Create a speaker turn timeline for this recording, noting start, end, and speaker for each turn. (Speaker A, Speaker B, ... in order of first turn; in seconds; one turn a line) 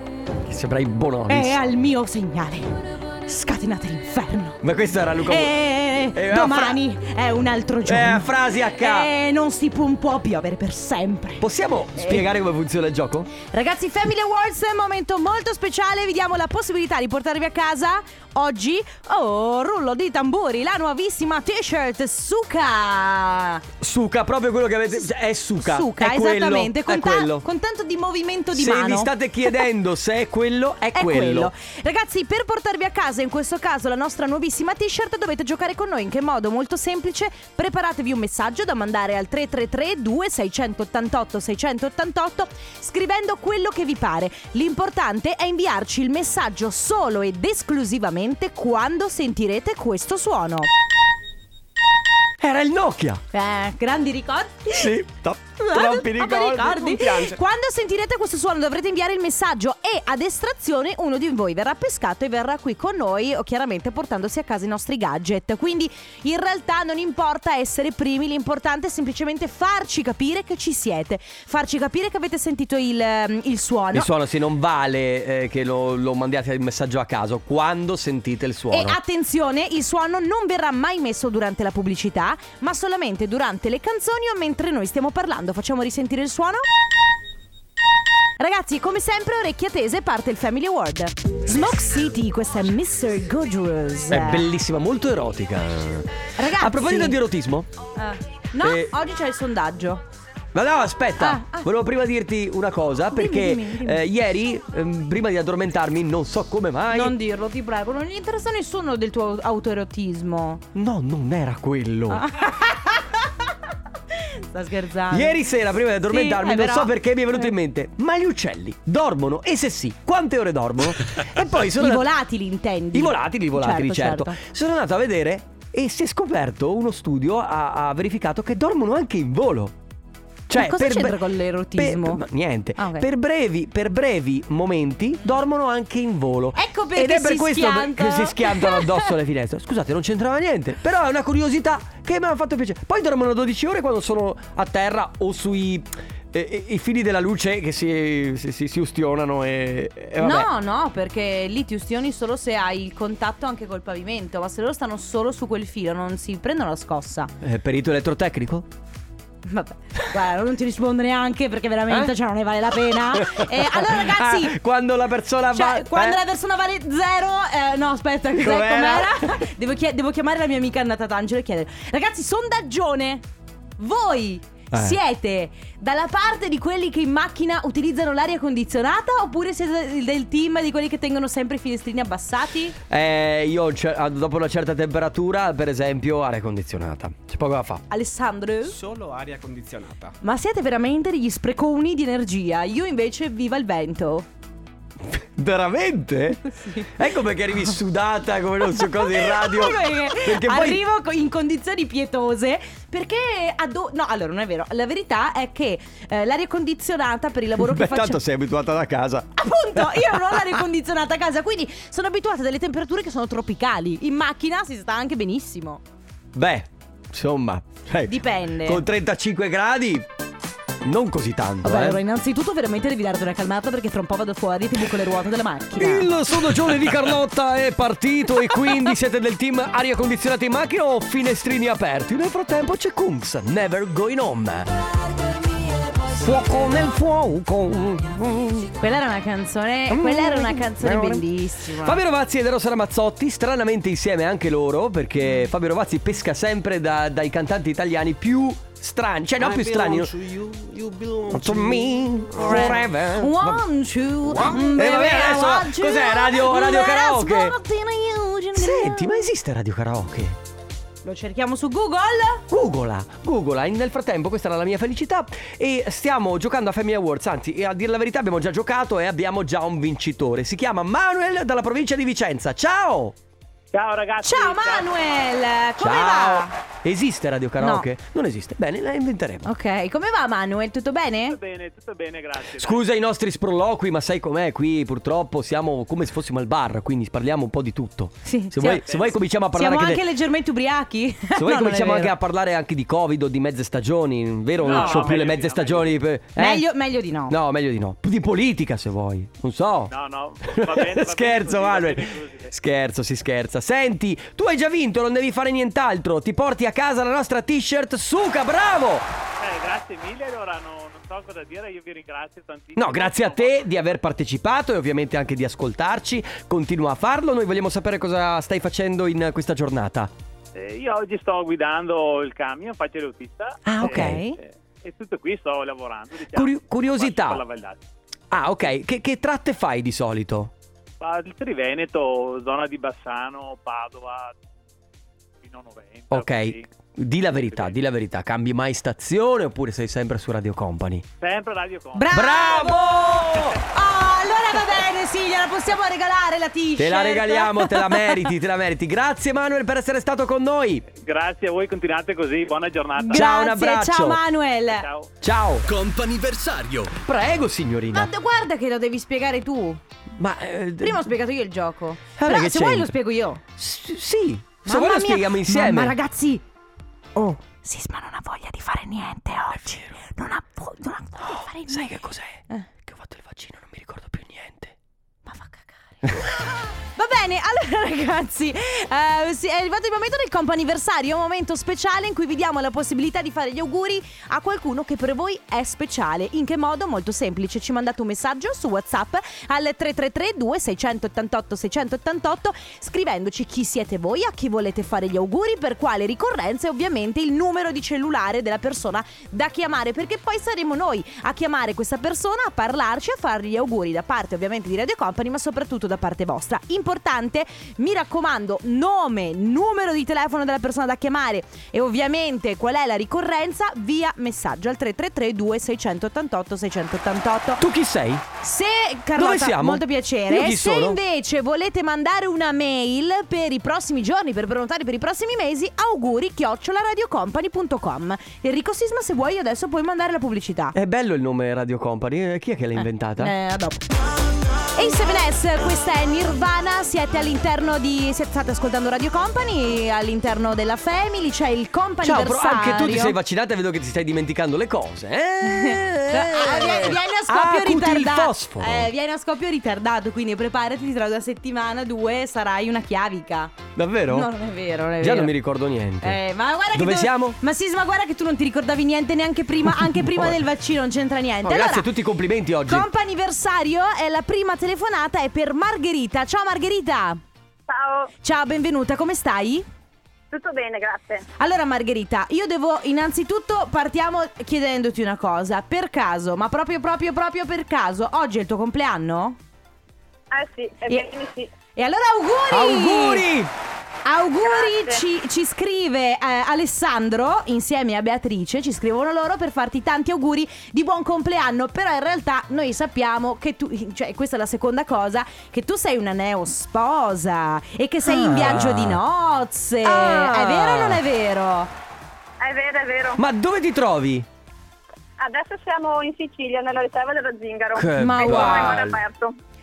Speaker A: 0.4-1.6
Speaker B: 1.3-4.6
Speaker A: 4.6-5.6
Speaker B: 5.3-11.4
Speaker A: 6.1-6.8
Speaker A: 7.8-9.1
Speaker A: 11.4-13.3
Speaker B: 11.9-12.3
Speaker B: 13.5-23.6
Speaker A: 23.8-27.4
Speaker B: 25.6-29.6
Speaker A: 28.5-31.5
Speaker B: 30.9-50.7
Speaker A: 52.4-53.2
Speaker B: 53.3-54.9
Speaker A: 54.7-56.9
Speaker B: 55.6-74.1
Speaker C: 56.5-57.4
Speaker A: 73.9-79.0
Speaker B: 78.7-86.6
Speaker B: 88.4-94.4
Speaker A: 94.1-97.7
Speaker B: 96.4-97.2
Speaker B: 98.0-100.0
Speaker A: 98.6-98.9
Speaker A: 100.5-107.1
Speaker B: 101.2-101.7
Speaker B: 103.1-104.0
Speaker B: 106.9-110.6
Speaker A: 110.7-112.2
Speaker B: 112.1-113.3
Speaker B: 114.1-115.4
Speaker A: 115.1-122.1
Speaker B: 116.0-117.5
Speaker B: 121.7-124.4
Speaker A: 122.9-129.7
Speaker A: 130.5-131.2
Speaker B: 130.5-132.2
Speaker A: 131.7-150.5
Speaker B: 132.8-133.1
Speaker B: 136.6-139.1
Speaker B: 150.2-157.3
Speaker A: 157.4-158.7
Speaker B: 159.4-164.6
Speaker A: 161.9-162.1
Speaker A: 162.7-166.2
Speaker B: 165.5-173.2
Speaker A: 168.3-169.4
Speaker B: 173.8-182.7
Speaker A: 174.7-175.0
Speaker A: 182.9-187.8
Speaker B: 187.9-188.8
Speaker C: 188.6-190.1
Speaker B: 190.2-194.2
Speaker A: 195.0-200.8
Speaker B: 196.5-196.9
Speaker B: 198.7-208.2
Speaker A: 207.6-210.6
Speaker B: 209.4-215.8
Speaker A: 216.3-220.1
Speaker B: 218.1-218.8
Speaker A: 220.8-222.0
Speaker B: 221.6-226.1
Speaker A: 225.8-234.7
Speaker A: 236.1-238.8
Speaker B: 238.8-242.0
Speaker A: 239.9-241.2
Speaker A: 241.8-250.2
Speaker C: 249.4-252.8
Speaker A: 251.3-253.6
Speaker B: 252.4-259.2
Speaker A: 254.3-257.6
Speaker A: 258.6-260.4
Speaker B: 261.0-262.4
Speaker A: 262.5-273.1
Speaker D: 273.7-275.2
Speaker B: 274.2-276.5
Speaker A: 275.8-279.5
Speaker B: 277.6-277.9
Speaker B: 279.4-281.4
Speaker D: 281.3-282.8
Speaker A: 282.6-290.0
Speaker B: 288.2-288.9
Speaker D: 288.9-289.1
Speaker B: 289.5-292.1
Speaker A: 291.4-296.6
Speaker D: 294.6-295.9
Speaker B: 294.7-295.2
Speaker B: 296.4-297.4
Speaker A: 297.3-299.9
Speaker D: 299.9-302.5
Speaker A: 300.4-309.1
Speaker D: 309.4-313.7
Speaker A: 312.8-320.1
Speaker D: 320.5-327.8
Speaker A: 323.6-324.2
Speaker B: 323.8-324.4
Speaker A: 326.3-327.4
Speaker A: 328.3-330.5
Speaker D: 331.0-334.4
Speaker D: 335.4-336.6
Speaker A: 336.1-341.1
Speaker D: 337.5-337.7
Speaker D: 341.2-342.2
Speaker B: 341.9-348.3
Speaker A: 342.1-343.6
Speaker A: 346.8-350.8
Speaker D: 350.9-353.2
Speaker B: 353.0-354.9
Speaker A: 353.1-354.2
Speaker D: 354.6-355.1
Speaker A: 355.2-358.1
Speaker B: 357.9-359.8
Speaker A: 360.2-361.0
Speaker B: 360.8-363.4
Speaker A: 362.2-362.9
Speaker A: 363.6-365.9
Speaker B: 364.6-366.4
Speaker B: 367.1-372.0
Speaker A: 369.5-369.9
Speaker A: 371.2-374.7
Speaker B: 375.2-417.6
Speaker A: 417.6-418.2
Speaker B: 418.4-430.8
Speaker A: 419.1-421.0
Speaker A: 430.7-433.3
Speaker B: 433.2-433.8
Speaker B: 434.8-443.1
Speaker A: 442.0-448.9
Speaker B: 445.4-453.6
Speaker A: 453.7-454.3
Speaker B: 454.1-455.3
Speaker A: 455.0-456.2
Speaker B: 456.0-461.9
Speaker A: 456.7-457.4
Speaker A: 459.8-460.4
Speaker A: 461.4-462.9
Speaker B: 462.7-467.2
Speaker E: 467.7-468.1
Speaker B: 468.2-469.6
Speaker E: 470.3-471.2
Speaker B: 471.4-479.4
Speaker E: 480.3-481.5
Speaker B: 481.7-483.2
Speaker A: 482.5-483.5
Speaker B: 484.0-501.7
Speaker E: 484.4-485.0
Speaker A: 498.0-499.0
Speaker A: 499.8-501.0
Speaker E: 502.4-503.2
Speaker A: 503.2-504.3
Speaker E: 505.2-509.3
Speaker A: 507.7-509.0
Speaker B: 508.0-508.8